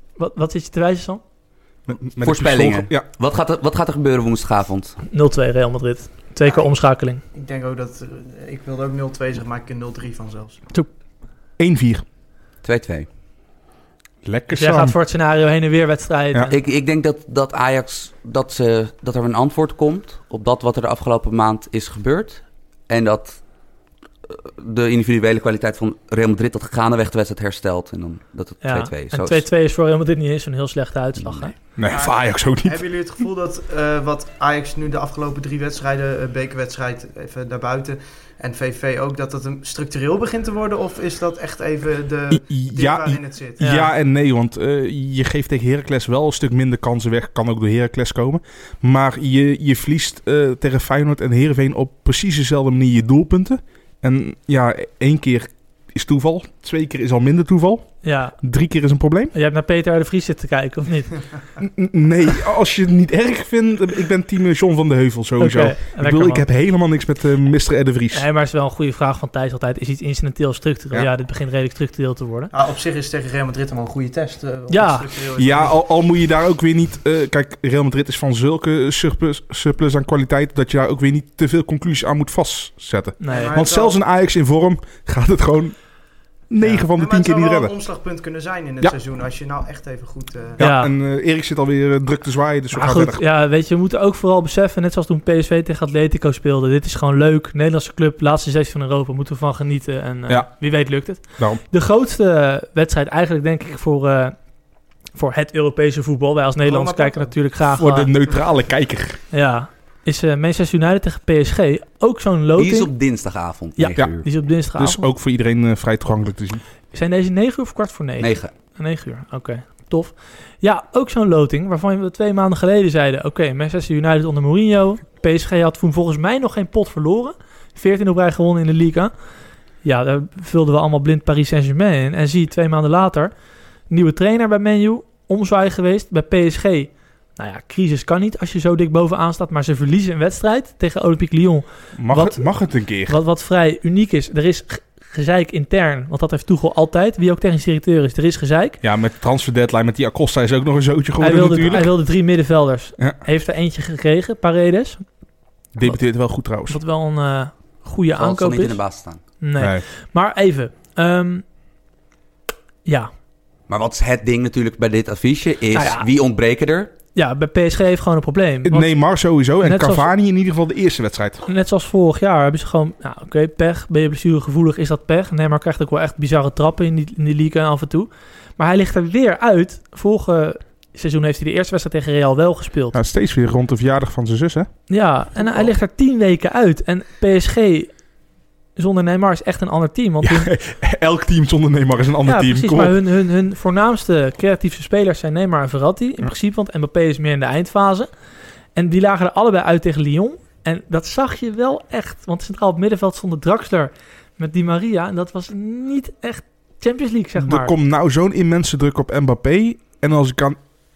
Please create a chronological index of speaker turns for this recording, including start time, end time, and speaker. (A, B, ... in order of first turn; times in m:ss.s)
0:00.2-0:01.2 A
0:01.9-0:03.1 B
0:02.2-0:05.0 C
0:05.1-0:07.2 A
0:07.3-0:10.6 D
0:11.6-0:12.0 B
0:12.6-0:13.1 C
0:14.2-0:15.0 B
0:14.5-0:16.5 A
0:16.5-0:23.4 C
0:24.3-0:29.4 C
0:28.6-0:31.6 A
0:31.2-0:31.5 C
0:31.8-0:32.8 B
0:31.9-0:43.6 D
0:42.3-0:59.3 B
0:43.6-0:43.9 A
0:58.0-0:58.4 A
0:59.3-1:01.2 A
1:01.6-1:08.3 B
1:05.4-1:06.4 A
1:08.1-1:12.5 A
1:12.5-1:15.8 D
1:14.7-1:15.1 A
1:15.4-1:25.8 B
1:23.2-1:23.6 A
1:23.3-1:24.0 D
1:26.5-1:27.7 B
1:26.6-1:30.6 D
1:30.6-1:33.2 B
1:30.6-1:30.9 A
1:32.7-1:44.4 A
1:45.2-1:48.1 A
1:46.6-1:47.3 D
1:47.8-1:49.2 B
1:49.3-1:52.9 A
1:52.6-1:54.2 C
1:53.8-1:55.1 A
1:54.8-1:56.6 B
1:56.9-2:09.1 A
1:58.2-1:58.5 C
2:09.8-2:13.3 A
2:13.9-2:22.5 A
2:22.0-2:23.2 B
2:23.1-2:28.8 A
2:28.8-2:32.0 B
2:31.2-2:35.0 A
2:35.8-2:36.8 B
2:36.7-2:38.8 A
2:38.2-2:39.2 C
2:39.4-2:41.4 A
2:39.6-2:39.8 B
2:43.7-2:46.9 C
2:45.7-2:46.1 A
2:47.2-2:48.9 A
2:48.6-2:51.4 B
2:49.6-2:50.1 A
2:51.5-3:03.0 A
3:02.9-3:04.7 B
3:04.9-3:07.9 A
3:08.8-3:10.5 A
3:10.2-3:13.0 B
3:12.2-3:18.1 A
3:18.8-3:27.8 A
3:27.4-3:30.6 B